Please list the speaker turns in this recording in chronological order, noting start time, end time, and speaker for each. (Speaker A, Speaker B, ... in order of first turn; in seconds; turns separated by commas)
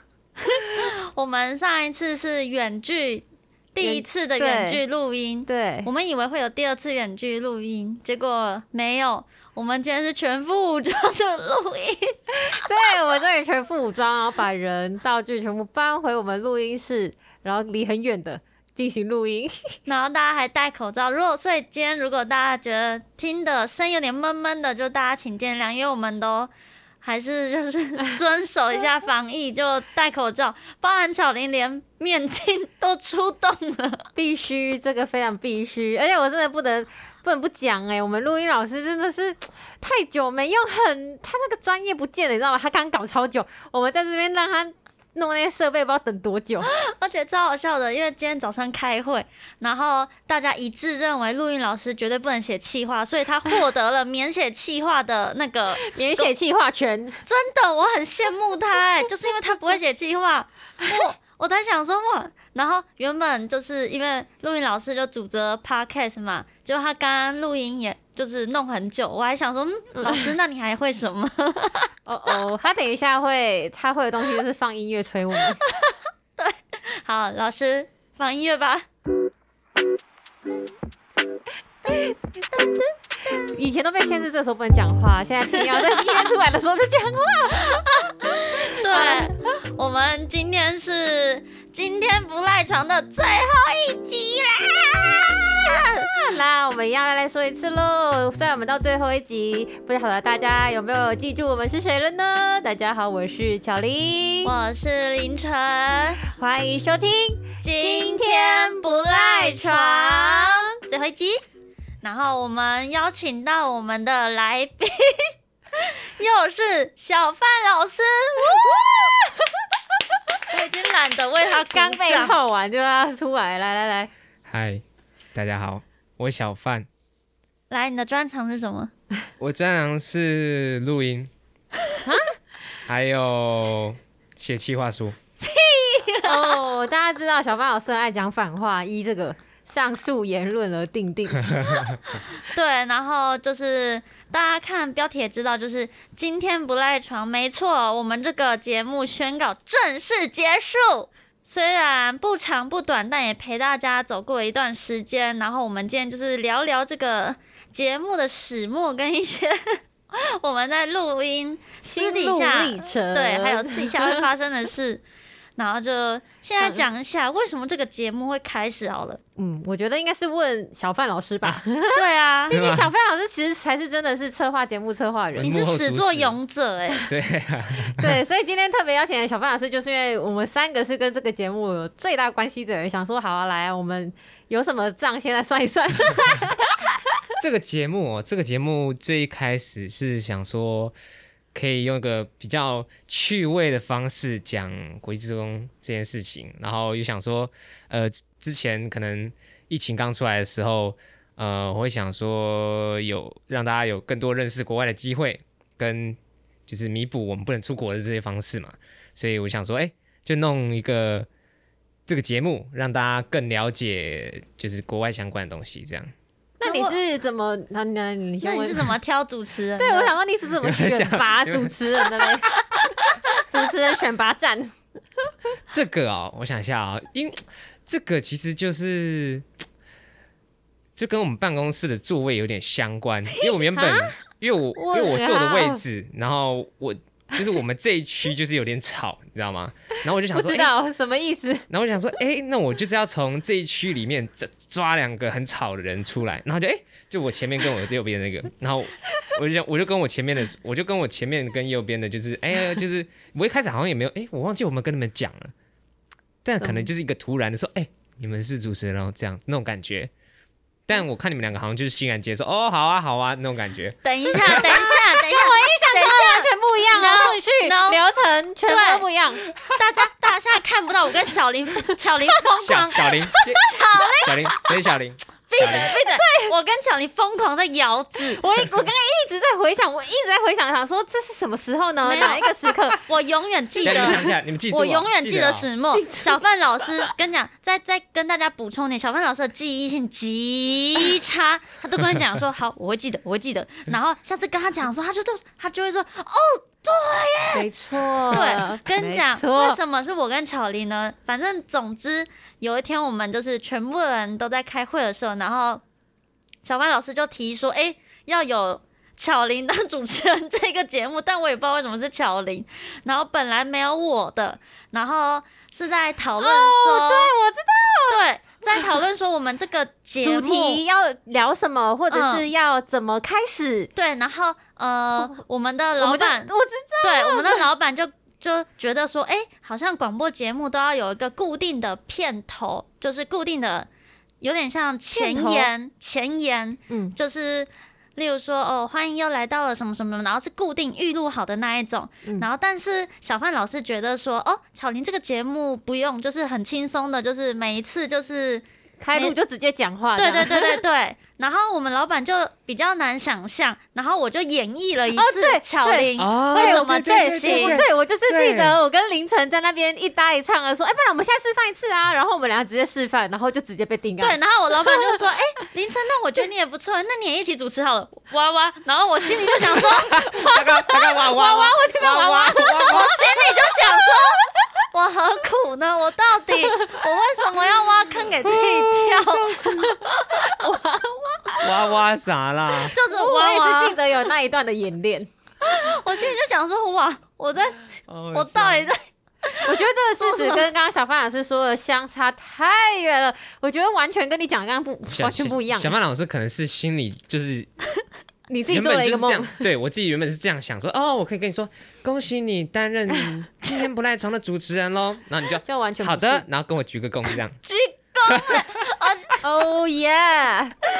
Speaker A: 0.5-12.7, Speaker B: 3.8-4.8, Speaker B: 5.5-5.9, Speaker B: 12.3-19.6, Speaker A: 19.9-26.5, Speaker A: 27.0-34.1, Speaker B: 34.1-46.7, Speaker A: 46.6-56.3, Speaker B: 55.8-57.2, Speaker A: 57.2-71.9, Speaker B: 72.0-75.6, Speaker A: 75.6-78.8, Speaker B: 83.3-87.8, Speaker A: 85.5-86.3, Speaker A: 87.7-96.2, Speaker B: 88.5-89.3, Speaker B: 96.2-104.5, Speaker A: 104.4-106.2, Speaker B: 106.3-110.8, Speaker A: 107.6-111.4, Speaker A: 112.0-119.1, Speaker B: 118.4-119.5, Speaker A: 120.5-122.4, Speaker B: 121.7-124.1, Speaker C: 124.5-124.8, Speaker C: 125.3-126.9, Speaker A: 127.7-128.9, Speaker C: 129.4-131.3, Speaker B: 132.0-132.3, Speaker C: 132.9-135.2, Speaker A: 135.4-136.6, Speaker B: 136.2-141.9, Speaker C: 141.5-142.0, Speaker A: 142.4-165.0, Speaker B: 161.8-164.2, Speaker A: 165.6-169.2, Speaker B: 166.6-166.8, Speaker B: 169.4-175.6, Speaker A: 171.9-172.6, Speaker C: 172.5-172.9, Speaker C: 175.3-176.4, Speaker A: 175.4-177.1, Speaker C: 177.1-178.2, Speaker B: 178.0-186.9, Speaker C: 187.4-190.9, Speaker C: 191.5-211.3, Speaker C: 212.1-216.1, Speaker B: 216.6-218.9, Speaker A: 216.6-216.9, Speaker A: 218.4-220.2, Speaker B: 219.8-222.5, Speaker C: 220.6-221.8, Speaker B: 223.5-224.8, Speaker C: 225.7-229.4, Speaker C: 230.9-240.7, Speaker B: 233.7-234.1, Speaker B: 234.8-235.8, Speaker B: 240.3-241.7, Speaker C: 241.7-255.5, Speaker C: 256.4-260.1, Speaker B: 256.6-256.9, Speaker C: 260.9-264.7, Speaker A: 264.1-268.0, Speaker B: 264.4-269.4, Speaker A: 268.7-269.1, Speaker A: 269.8-274.4, Speaker C: 272.6-275.9, Speaker B: 273.4-274.3, Speaker A: 275.5-278.4, Speaker B: 275.6-276.5, Speaker B: 278.3-283.0, Speaker A: 282.0-297.7, Speaker C: 283.9-285.7, Speaker B: 283.9-284.3, Speaker B: 285.9-286.4, Speaker B: 297.5-299.8, Speaker A: 298.3-305.8, Speaker A: 306.6-317.3, Speaker B: 316.4-318.2, Speaker A: 318.1-320.8, Speaker B: 320.2-323.9, Speaker A: 322.1-322.5, Speaker A: 324.0-326.5, Speaker B: 326.0-327.7, Speaker A: 327.0-333.9, Speaker A: 334.4-349.4, Speaker B: 335.1-335.7, Speaker B: 349.0-350.8, Speaker A: 350.2-357.8, Speaker B: 355.1-364.4, Speaker C: 356.2-358.8, Speaker A: 364.2-370.6, Speaker C: 369.7-373.3, Speaker B: 370.8-374.2, Speaker A: 372.9-380.4, Speaker C: 378.4-380.0, Speaker B: 380.4-381.7, Speaker C: 381.6-382.9, Speaker A: 382.9-384.3, Speaker B: 383.0-385.3, Speaker A: 385.6-390.7, Speaker C: 388.1-388.9, Speaker B: 389.6-395.9, Speaker C: 395.1-397.7, Speaker B: 398.5-399.6, Speaker C: 398.7-407.6, Speaker B: 405.6-406.4, Speaker A: 407.6-409.4, Speaker C: 408.2-408.8, Speaker B: 409.4-410.8